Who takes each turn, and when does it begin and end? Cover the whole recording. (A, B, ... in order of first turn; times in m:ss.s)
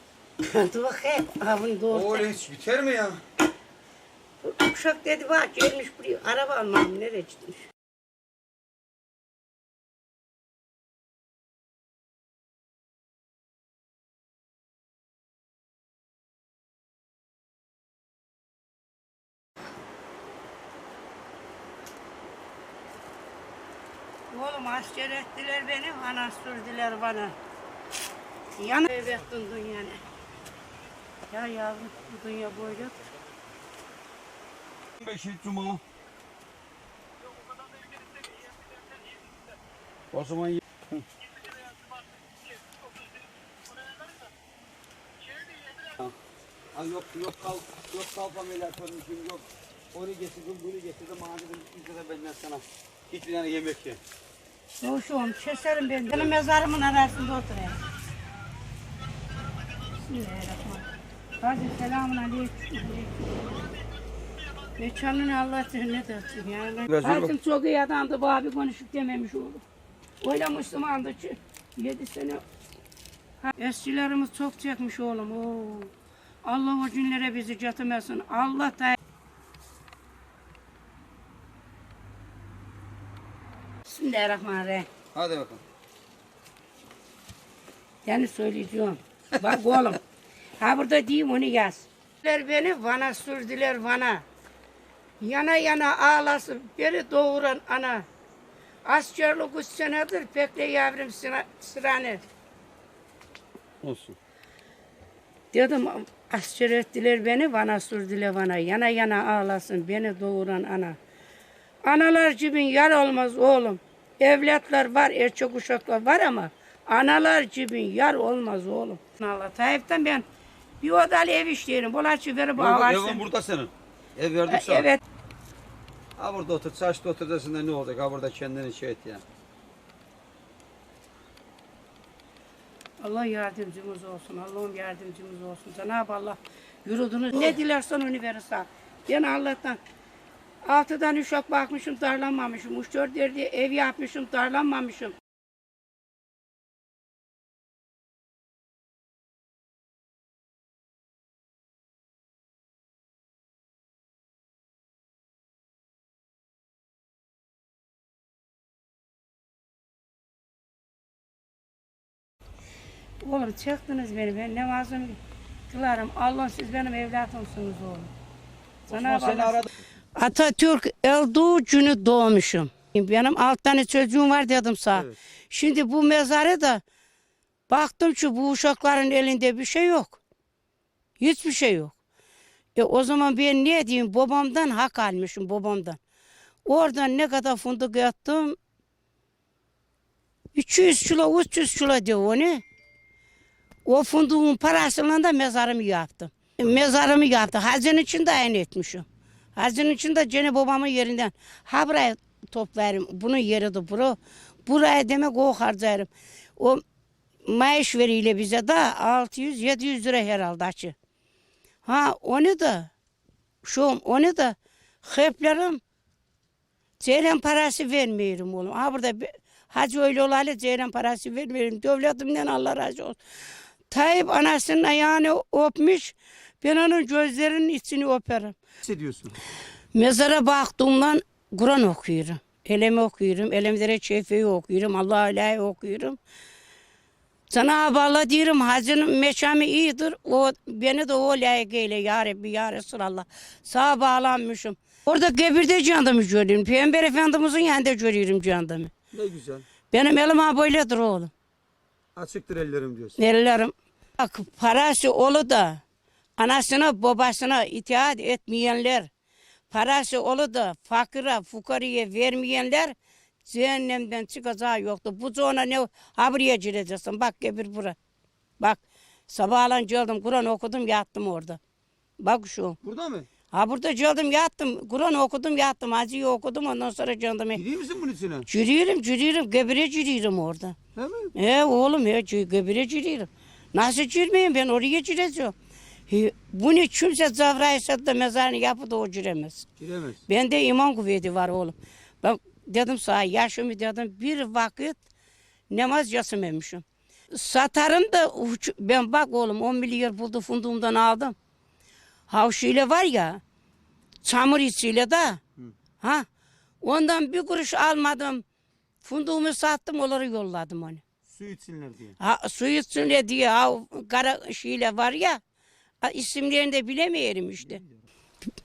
0:00.4-0:02.3 A
0:01.9-0:03.2 B
0:04.4-0:07.6 A
0:24.3-0:27.4 A
0:28.6-0:30.0 A
0:31.3-0:33.1 A
0:35.0-0:35.8 B
0:40.1-0:41.0 B
0:46.7-0:54.0 B
0:54.8-0:57.8 A
0:59.9-1:00.9 A
1:01.4-1:03.2 A
1:04.8-1:09.6 A
1:06.9-1:07.3 B
1:10.2-1:12.4 A
1:13.4-1:15.9 A
1:16.4-1:19.0 A
1:23.9-1:24.9 A
1:25.1-1:25.6 B
1:28.0-1:30.0 A
1:30.6-1:34.2 A
1:35.2-1:38.0 A
1:38.8-1:42.2 A
1:43.8-1:44.2 B
1:45.5-1:51.0 A
1:51.8-2:00.2 A
2:00.8-2:03.3 A
2:02.6-2:04.9 B
2:04.5-2:05.0 A
2:06.2-2:09.2 B
2:13.0-2:19.8 A
2:20.6-2:25.2 A
2:43.2-2:48.1 A
2:48.9-2:49.6 A
2:48.9-2:49.7 B
2:50.2-2:56.8 A
2:54.9-2:55.2 B
2:57.7-3:00.2 A
3:01.2-3:02.0 A
3:02.8-3:06.0 A
3:06.7-3:08.6 A
3:10.5-3:12.6 A
3:13.9-3:19.0 A
3:19.6-3:26.8 A
3:27.5-3:31.0 A
3:31.8-3:32.9 A
3:33.6-3:35.8 A
3:37.0-3:43.2 A
3:43.9-3:48.6 A
3:48.8-3:49.4 B
3:49.9-3:56.2 A
3:57.5-4:08.9 A
4:09.1-4:09.7 B
4:09.9-4:11.3 A
4:12.2-4:13.2 B
4:13.2-4:15.8 A
4:16.4-4:19.1 A
4:19.7-4:28.0 A
4:28.6-4:31.6 A
4:32.2-4:32.8 A
4:32.8-4:33.3 B
4:33.5-4:37.6 A
4:37.5-4:38.4 B
4:38.5-4:40.8 A
4:41.0-4:41.3 B
4:41.3-4:45.5 A
4:46.1-4:49.7 A
4:49.8-4:50.2 B
4:50.3-4:55.0 A
4:55.7-5:01.4 A
5:02.3-5:03.4 A
5:04.2-5:05.4 A
5:06.8-5:08.4 A
5:09.0-5:11.0 A
5:11.3-5:12.2 B
5:12.2-5:15.4 A
5:16.0-5:17.8 A